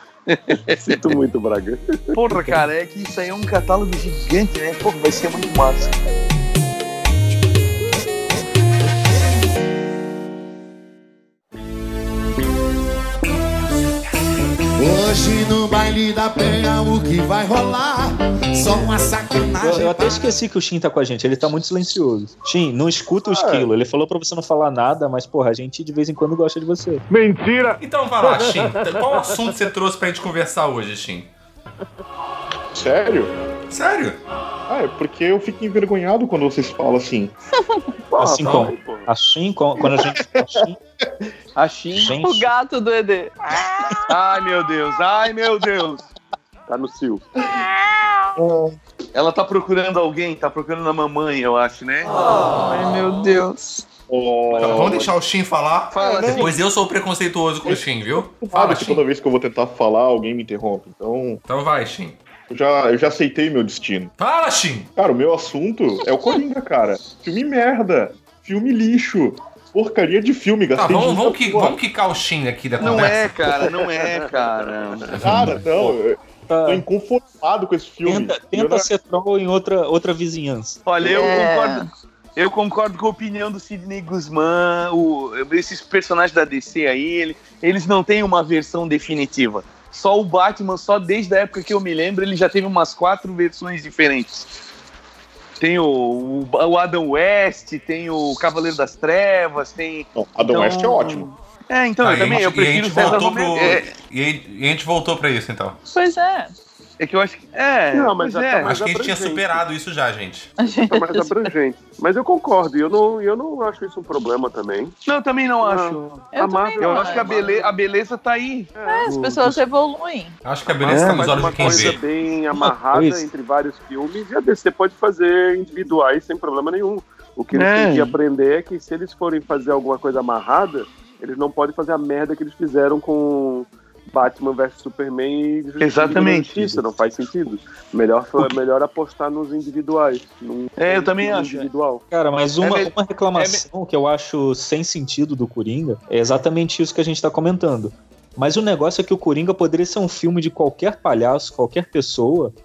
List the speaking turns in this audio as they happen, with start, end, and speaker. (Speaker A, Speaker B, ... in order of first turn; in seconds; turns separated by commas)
Speaker A: 0.3-1.2, Speaker B: 0.6-2.2, Speaker A: 2.1-6.0, Speaker C: 14.8-20.3, Speaker D: 19.6-27.0, Speaker E: 23.4-23.6, Speaker E: 27.1-27.8, Speaker F: 27.8-31.3, Speaker E: 32.7-33.3, Speaker F: 33.7-34.2, Speaker E: 34.7-37.3, Speaker B: 38.1-39.1, Speaker D: 38.2-40.8, Speaker F: 38.4-38.7, Speaker E: 39.8-40.6, Speaker A: 41.6-42.2, Speaker D: 41.9-42.5, Speaker G: 42.2-44.0, Speaker A: 44.1-46.1, Speaker B: 46.7-47.2, Speaker G: 47.5-48.4, Speaker E: 48.4-48.8, Speaker A: 49.1-52.2, Speaker G: 52.4-53.8, Speaker E: 54.1-55.1, Speaker F: 54.5-59.0, Speaker A: 55.9-56.6, Speaker G: 56.0-56.4, Speaker E: 56.2-56.5, Speaker E: 58.4-61.4, Speaker F: 61.5-62.2, Speaker E: 62.5-64.1, Speaker F: 64.2-64.9, Speaker E: 65.0-71.8, Speaker F: 70.8-73.7, Speaker A: 72.8-75.2, Speaker B: 74.2-75.1, Speaker F: 75.2-75.6, Speaker E: 75.2-78.9, Speaker D: 75.2-76.9, Speaker D: 78.0-80.8, Speaker A: 80.9-94.5, Speaker G: 81.0-81.9, Speaker A: 95.6-103.9, Speaker E: 100.1-101.3, Speaker F: 102.0-105.8, Speaker G: 105.9-106.5, Speaker A: 107.0-108.8, Speaker B: 107.9-109.6, Speaker F: 108.6-110.5, Speaker G: 110.6-111.5, Speaker B: 110.8-115.0, Speaker A: 115.1-119.2, Speaker B: 115.6-117.8, Speaker G: 116.3-117.5, Speaker B: 118.8-119.5, Speaker G: 118.8-120.3, Speaker F: 120.5-122.0, Speaker B: 120.8-142.0, Speaker A: 120.9-121.9, Speaker D: 122.5-123.3, Speaker A: 127.5-128.2, Speaker A: 135.8-136.9, Speaker A: 140.8-141.7, Speaker D: 142.1-152.5, Speaker A: 142.6-143.6